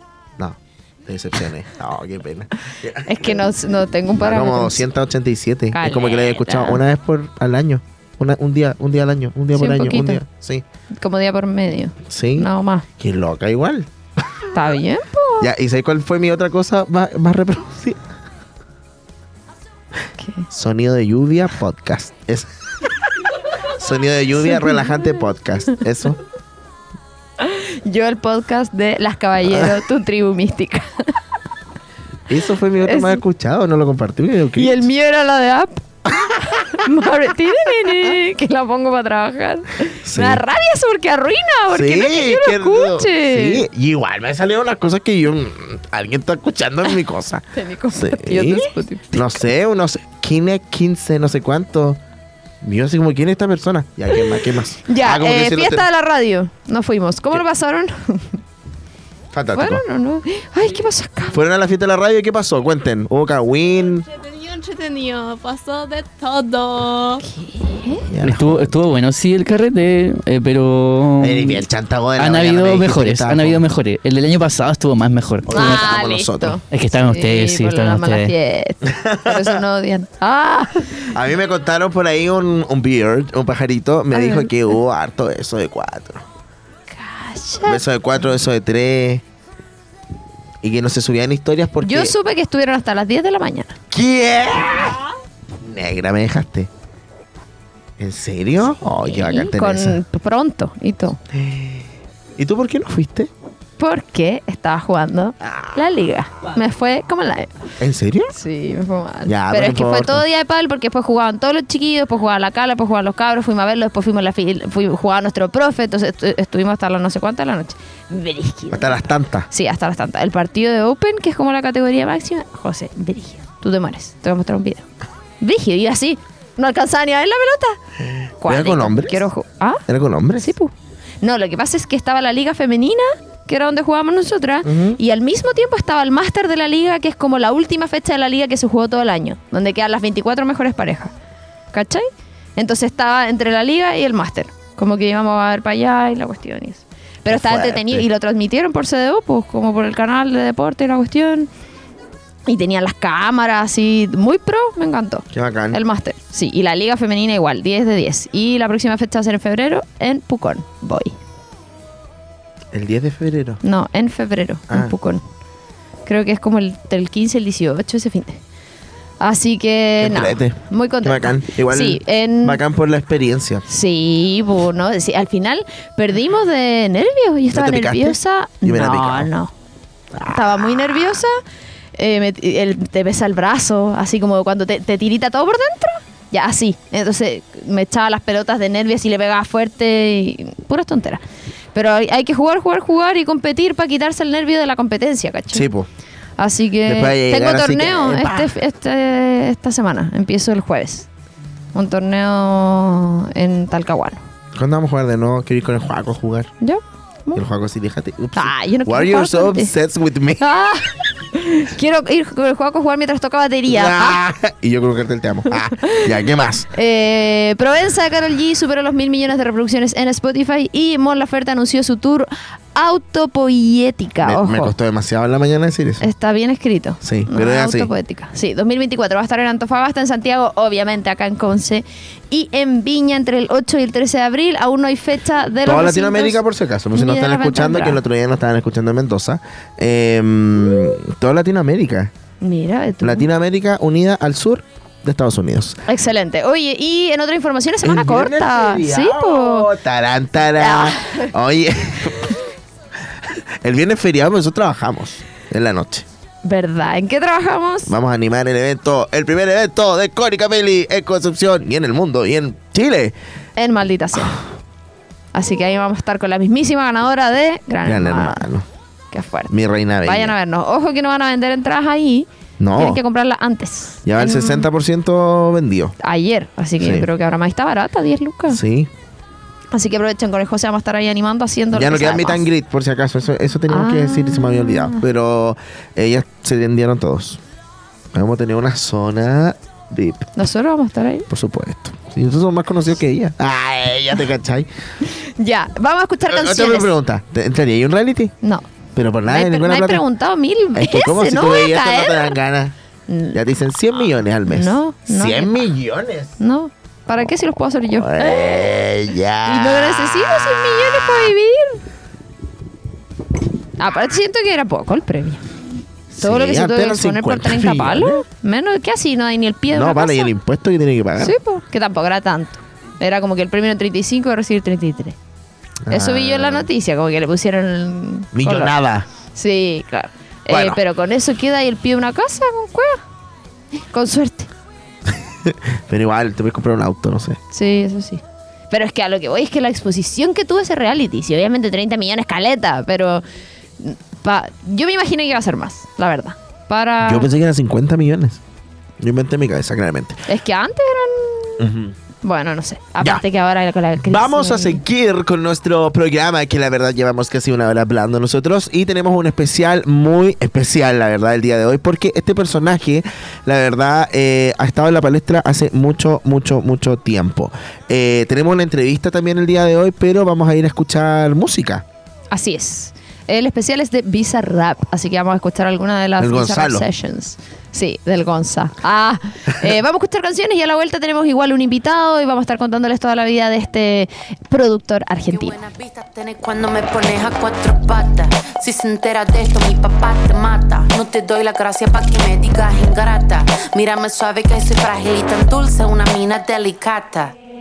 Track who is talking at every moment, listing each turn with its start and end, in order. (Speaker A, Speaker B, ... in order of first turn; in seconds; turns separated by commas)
Speaker A: 0.4-3.5, Speaker B: 3.0-4.8, Speaker A: 4.2-10.6, Speaker B: 5.7-6.8, Speaker B: 9.5-10.2, Speaker B: 11.0-12.8, Speaker A: 12.0-13.9, Speaker B: 14.5-15.5, Speaker A: 15.4-18.0, Speaker B: 20.2-20.5, Speaker A: 20.5-22.9, Speaker A: 23.6-26.2, Speaker B: 24.4-25.1, Speaker B: 27.4-31.1, Speaker A: 29.5-29.7, Speaker A: 32.3-34.8, Speaker B: 32.8-33.2, Speaker B: 34.5-35.8, Speaker A: 36.2-36.8, Speaker B: 36.8-43.6, Speaker A: 40.0-40.4, Speaker A: 41.7-52.0, Speaker B: 47.5-49.3, Speaker A: 52.6-55.9, Speaker B: 54.9-58.4, Speaker A: 59.3-59.8, Speaker B: 59.5-61.3, Speaker A: 61.3-64.0, Speaker B: 67.2-68.1, Speaker A: 68.1-68.7, Speaker C: 68.2-71.6, Speaker A: 71.2-73.6, Speaker C: 72.2-75.9, Speaker A: 75.5-76.6, Speaker B: 75.5-81.1, Speaker C: 76.7-78.3, Speaker A: 78.8-79.6, Speaker A: 81.1-86.2, Speaker B: 84.1-84.7, Speaker B: 86.9-87.8, Speaker A: 87.6-89.2, Speaker A: 90.6-92.1, Speaker B: 91.8-93.8, Speaker A: 93.9-95.0, Speaker A: 95.6-96.7, Speaker A: 98.0-100.0, Speaker B: 98.7-101.2, Speaker A: 101.3-103.3, Speaker B: 103.8-107.5, Speaker A: 105.4-105.8, Speaker A: 107.8-108.3, Speaker B: 108.3-124.8, Speaker A: 109.2-110.2, Speaker A: 118.7-119.5, Speaker B: 125.4-127.8, Speaker A: 128.2-129.2, Speaker B: 128.4-129.8, Speaker A: 129.9-130.5, Speaker B: 130.4-141.1, Speaker A: 134.6-135.0, Speaker B: 141.7-151.5, Speaker A: 147.3-148.1, Speaker B: 152.5-161.1, Speaker A: 155.3-155.8, Speaker A: 162.7-163.6, Speaker B: 163.6-165.2, Speaker B: 166.1-168.4, Speaker B: 169.2-172.6, Speaker A: 170.0-173.6, Speaker B: 173.7-179.5, Speaker A: 177.5-179.3, Speaker A: 180.1-181.2, Speaker B: 180.3-181.3, Speaker B: 181.9-191.2, Speaker B: 191.7-195.7, Speaker A: 195.5-195.9, Speaker B: 196.4-201.1, Speaker A: 196.8-198.5, Speaker B: 201.7-204.2, Speaker A: 204.5-206.5, Speaker B: 206.6-207.4, Speaker A: 207.3-210.5, Speaker B: 208.3-209.7, Speaker B: 210.4-214.2, Speaker A: 213.7-216.7, Speaker B: 215.8-216.1, Speaker B: 216.7-224.7, Speaker A: 224.2-226.1, Speaker B: 226.0-236.4, Speaker A: 227.0-227.9, Speaker A: 235.6-242.1, Speaker B: 236.9-238.0, Speaker B: 242.4-243.2, Speaker A: 243.0-245.8, Speaker B: 245.9-249.7, Speaker A: 247.8-252.4, Speaker B: 250.6-251.3, Speaker A: 253.2-256.1, Speaker B: 256.4-257.9, Speaker A: 257.9-263.1, Speaker B: 263.6-264.4, Speaker B: 265.3-268.5, Speaker A: 267.8-268.6, Speaker B: 269.1-274.7, Speaker A: 269.5-270.3, Speaker A: 272.6-273.0, Speaker A: 274.0-275.9, Speaker B: 276.0-278.6, Speaker A: 276.8-277.1, Speaker A: 278.5-278.9, Speaker B: 279.7-282.4, Speaker A: 281.7-287.4, Speaker B: 283.7-285.0, Speaker A: 288.1-290.3, Speaker B: 290.4-291.3, Speaker A: 291.3-294.7, Speaker B: 295.1-296.9, Speaker A: 296.3-298.3, Speaker A: 298.9-300.0, Speaker B: 299.3-302.4, Speaker A: 300.7-302.7, Speaker B: 303.1-303.4, Speaker A: 303.3-306.3, Speaker B: 304.5-305.6, Speaker B: 306.4-308.7, Speaker A: 307.9-311.2, Speaker B: 309.4-311.8, Speaker B: 313.8-315.4, Speaker A: 316.1-318.2, Speaker B: 316.2-320.3, Speaker A: 319.7-321.4, Speaker B: 321.2-325.1, Speaker A: 325.9-326.7, Speaker B: 325.9-328.7, Speaker A: 328.3-329.1, Speaker B: 329.3-333.0, Speaker A: 330.5-330.8, Speaker B: 333.9-334.5, Speaker A: 335.1-337.4, Speaker B: 337.5-343.2, Speaker B: 343.8-347.3, Speaker A: 347.0-348.4, Speaker A: 349.0-350.2, Speaker B: 350.3-351.6, Speaker A: 351.6-351.9, Speaker B: 352.2-354.8, Speaker A: 354.0-371.8, Speaker B: 372.3-385.6, Speaker A: 376.2-376.9, Speaker D: 385.3-397.4